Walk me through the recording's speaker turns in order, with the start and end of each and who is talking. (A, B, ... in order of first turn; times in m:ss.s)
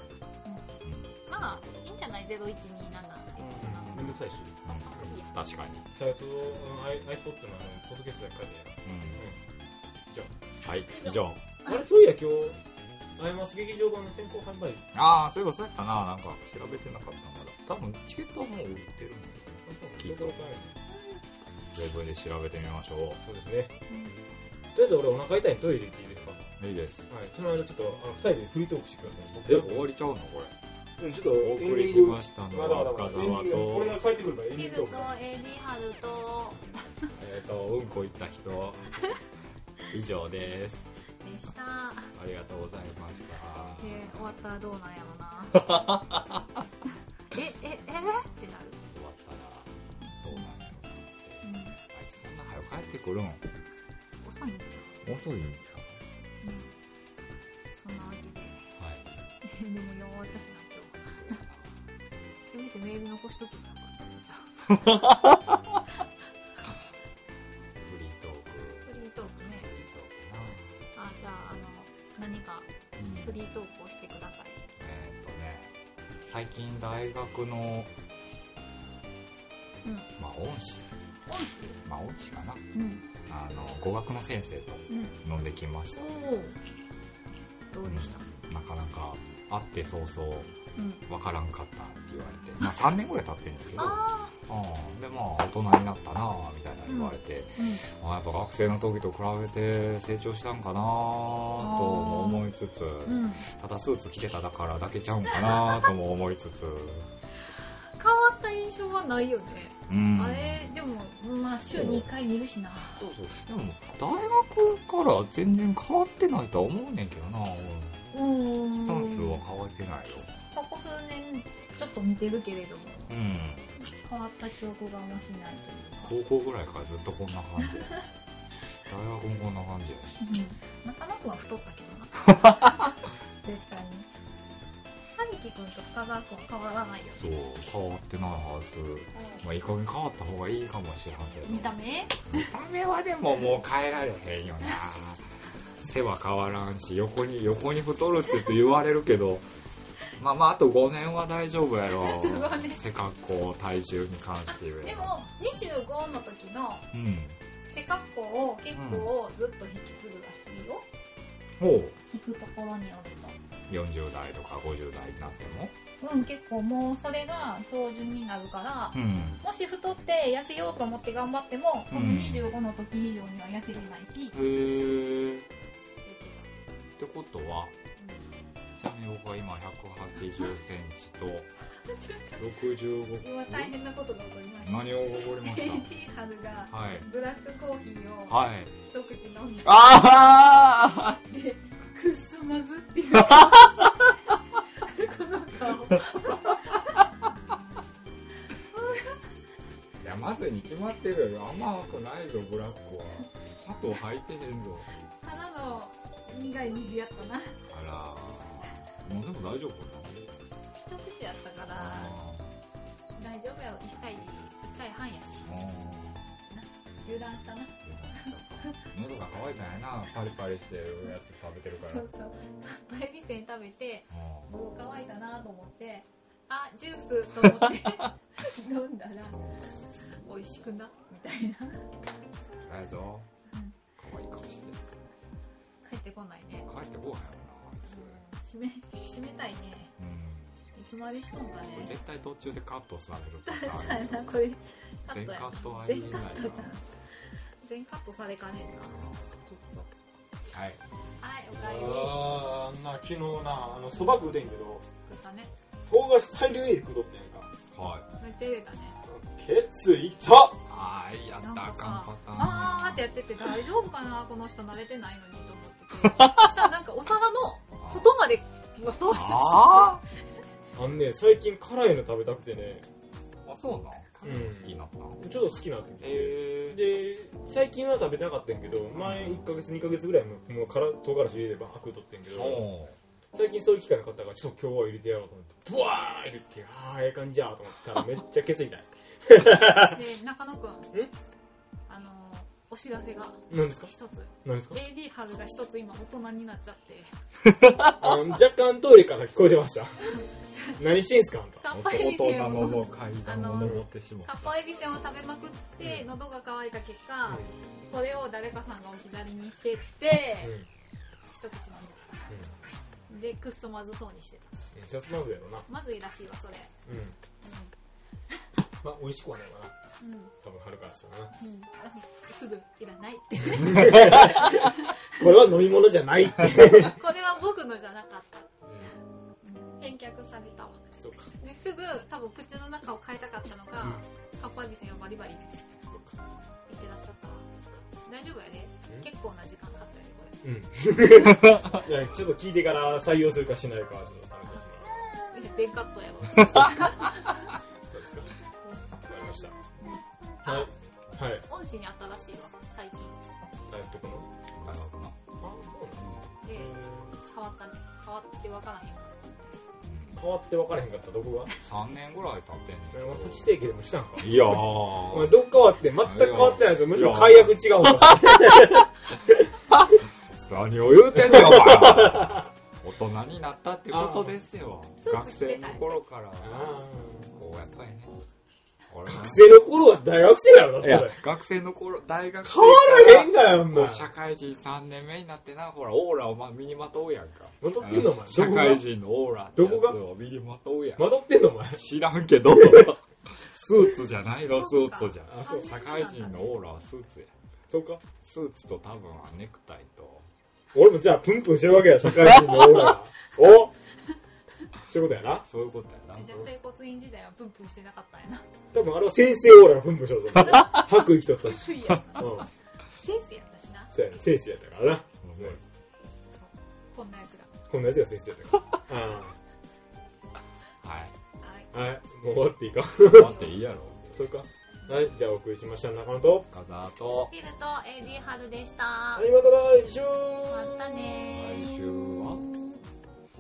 0:00.8-0:01.2 A
0:01.3-0:04.1 B
0:03.4-0:05.9 A
0:03.6-0:04.6 C
0:04.7-0:05.3 B
0:05.9-0:09.4 C
0:08.8-0:09.2 A
0:10.6-0:11.4 A
0:10.9-0:11.8 B
0:11.7-0:12.6 C
0:13.2-0:14.8 C
0:14.9-0:20.4 A
0:19.6-0:20.8 C
0:21.7-0:23.2 A
0:23.2-0:23.7 C
0:23.9-0:24.2 B
0:24.8-0:26.5 C
0:26.6-0:27.1 A
0:27.1-0:29.9 C
0:29.4-0:30.6 A
0:31.0-0:35.1 C
0:31.4-0:34.0 A
0:34.6-0:37.1 B
0:37.2-0:38.9 A
0:39.9-0:40.9 A
0:41.2-0:42.1 B
0:42.2-0:44.2 A
0:43.8-0:45.9 B
0:45.5-0:46.6 A
0:47.3-0:48.8 B
0:48.9-0:53.4 A
0:50.3-0:50.6 B
0:51.4-0:51.8 B
0:54.2-0:55.0 B
0:55.0-0:56.0 A
0:56.4-0:56.7 B
0:57.7-0:58.7 B
0:58.8-0:59.2 A
0:59.4-1:01.4 B
1:01.1-1:01.8 A
1:02.5-1:05.0 B
1:04.7-1:05.8 A
1:07.8-1:08.9 A
1:08.9-1:09.7 B
1:09.5-1:10.8 A
1:11.0-1:12.7 B
1:13.0-1:13.4 A
1:13.2-1:14.6 B
1:14.8-1:17.9 A
1:19.8-1:20.1 B
1:20.2-1:20.9 A
1:21.3-1:21.8 B
1:21.8-1:22.6 A
1:22.7-1:23.1 B
1:23.3-1:26.1 A
1:24.9-1:25.2 B
1:26.0-1:26.6 B
1:27.7-1:28.3 B
1:27.8-1:30.6 A
1:30.8-1:31.0 B
1:31.1-1:47.1 A
1:33.8-1:34.4 B
1:36.9-1:37.8 B
1:41.6-1:42.5 B
1:43.1-1:43.4 B
1:48.0-1:53.1 B
1:49.9-1:50.8 A
1:51.7-1:52.1 A
1:53.0-1:58.0 A
1:58.1-1:59.4 B
1:58.8-2:00.3 A
2:00.5-2:03.2 B
2:03.1-2:03.8 A
2:03.8-2:06.1 B
2:06.0-2:08.1 A
2:08.8-2:10.2 A
2:10.2-2:14.1 B
2:12.3-2:12.8 A
2:15.2-2:17.4 B
2:17.2-2:25.3 A
2:19.1-2:19.4 B
2:21.4-2:22.5 B
2:25.8-2:29.5 A
2:30.2-2:35.2 A
2:31.9-2:32.8 B
2:34.8-2:36.9 B
2:36.9-2:37.4 A
2:37.7-2:40.9 B
2:38.7-2:39.1 A
2:41.6-2:42.0 A
2:42.1-2:43.4 B
2:43.7-2:45.8 A
2:46.0-2:54.4 B
2:48.9-2:49.4 A
2:51.9-2:52.5 A
2:54.3-2:55.5 A
2:56.0-2:56.7 B
2:57.0-2:57.8 A
2:58.0-2:58.3 B
2:58.8-3:01.5 A
3:01.8-3:02.5 B
3:02.4-3:03.7 A
3:03.2-3:09.9 B
3:04.6-3:05.9 A
3:06.7-3:07.1 A
3:08.3-3:08.7 A
3:09.6-3:11.2 A
3:11.2-3:14.1 B
3:13.2-3:14.0 A
3:14.8-3:17.0 B
3:15.9-3:16.6 A
3:18.7-3:19.2 B
3:20.0-3:24.9 A
3:25.2-3:27.6 B
3:27.7-3:30.2 A
3:30.8-3:32.1 B
3:31.7-3:32.5 A
3:33.2-3:35.6 B
3:35.4-3:36.3 A
3:36.5-3:38.8 B
3:37.8-3:42.1 A
3:41.8-3:49.4 B
3:44.1-3:44.5 A
3:47.6-3:48.0 A
3:49.3-3:50.1 A
3:50.0-3:51.9 B
3:52.6-3:53.3 A
3:53.5-3:53.8 B
3:54.0-3:54.8 A
3:55.8-3:56.7 B
3:56.6-3:58.2 A
3:57.8-3:59.9 B
4:00.0-4:00.8 A
4:00.8-4:01.9 B
4:01.7-4:04.3 A
4:03.5-4:09.9 B
4:05.1-4:06.8 A
4:08.9-4:09.4 A
4:10.5-4:10.8 A
4:11.2-4:12.4 B
4:11.5-4:14.8 C
4:15.0-4:15.5 B
4:15.9-4:17.5 C
4:17.7-4:18.1 A
4:18.2-4:19.0 B
4:19.0-4:20.6 C
4:20.7-4:23.1 A
4:21.4-4:30.0 B
4:26.0-4:26.6 A
4:27.8-4:28.1 A
4:29.1-4:30.0 A
4:30.8-4:32.9 C
4:33.4-4:35.2 A
4:34.2-4:42.7 C
4:36.0-4:36.8 A
4:39.0-4:39.4 A
4:42.3-4:43.0 A
4:43.3-4:50.0 C
4:49.8-4:50.9 B
4:51.9-4:57.1 B
4:53.5-4:53.9 C
4:54.4-4:54.8 C
4:57.4-4:58.2 A
4:58.0-5:00.0 C
5:00.8-5:01.6 C
5:01.6-5:10.6 B
5:01.7-5:04.5 A
5:05.8-5:06.1 C
5:07.3-5:07.5 C
5:10.4-5:10.7 C
5:11.3-5:12.3 B
5:12.3-5:12.6 C
5:13.1-5:14.5 B
5:14.7-5:15.7 C
5:15.7-5:16.7 B
5:16.9-5:17.2 C
5:17.4-5:17.7 B
5:18.8-5:19.8 C
5:20.0-5:20.3 B
5:20.4-5:21.3 C
5:21.4-5:25.0 B
5:23.4-5:27.0 C
5:26.6-5:28.5 B
5:28.6-5:28.9 C
5:29.4-5:30.8 B
5:31.0-5:31.3 C
5:31.4-5:35.6 B
5:35.9-5:36.2 C
5:36.7-5:37.5 B
5:38.0-5:40.4 B
5:40.4-5:45.0 C
5:41.3-5:41.8 A
5:45.3-5:47.6 B
5:46.4-5:46.7 A
5:47.9-5:48.3 C
5:49.0-5:49.6 C
5:49.8-5:50.7 B
5:50.4-5:51.5 C
5:51.5-5:53.2 B
5:53.7-5:54.3 C
5:54.5-5:55.2 A
5:55.4-5:57.1 C
5:56.4-5:59.1 B
5:59.8-6:00.2 A
6:00.2-6:01.5 C
6:01.6-6:03.5 A
6:02.9-6:09.5 C
6:04.2-6:05.3 A
6:06.0-6:08.8 A
6:09.7-6:16.8 A
6:11.2-6:12.5 C
6:13.9-6:14.3 C
6:15.0-6:16.0 B
6:16.4-6:17.3 C
6:17.3-6:18.3 A
6:18.9-6:19.4 A
6:19.1-6:21.2 C
6:20.8-6:31.1 A
6:22.4-6:24.1 C
6:27.6-6:28.9 C
6:27.7-6:28.1 B
6:29.6-6:30.0 C
6:31.0-6:31.8 C
6:31.7-6:37.3 A
6:32.5-6:32.9 C
6:34.5-6:36.5 B
6:35.3-6:35.7 C
6:37.7-6:38.0 C
6:38.2-6:40.3 A
6:40.7-6:43.7 C
6:44.9-6:45.5 C
6:45.4-6:46.5 A
6:46.2-6:48.5 B
6:48.7-6:52.5 C
6:50.4-6:53.9 B
6:53.9-6:55.6 C
6:55.2-6:55.6 A
6:56.3-6:57.6 B
6:57.7-6:59.4 C
7:00.8-7:01.2 A
7:01.4-7:01.7 B
7:01.7-7:03.3 C
7:03.0-7:04.3 A
7:03.1-7:03.6 B
7:04.1-7:06.5 C
7:06.5-7:07.3 A
7:07.3-7:09.3 B
7:09.2-7:10.9 C
7:10.5-7:11.9 B
7:11.3-7:12.4 A
7:12.1-7:12.8 C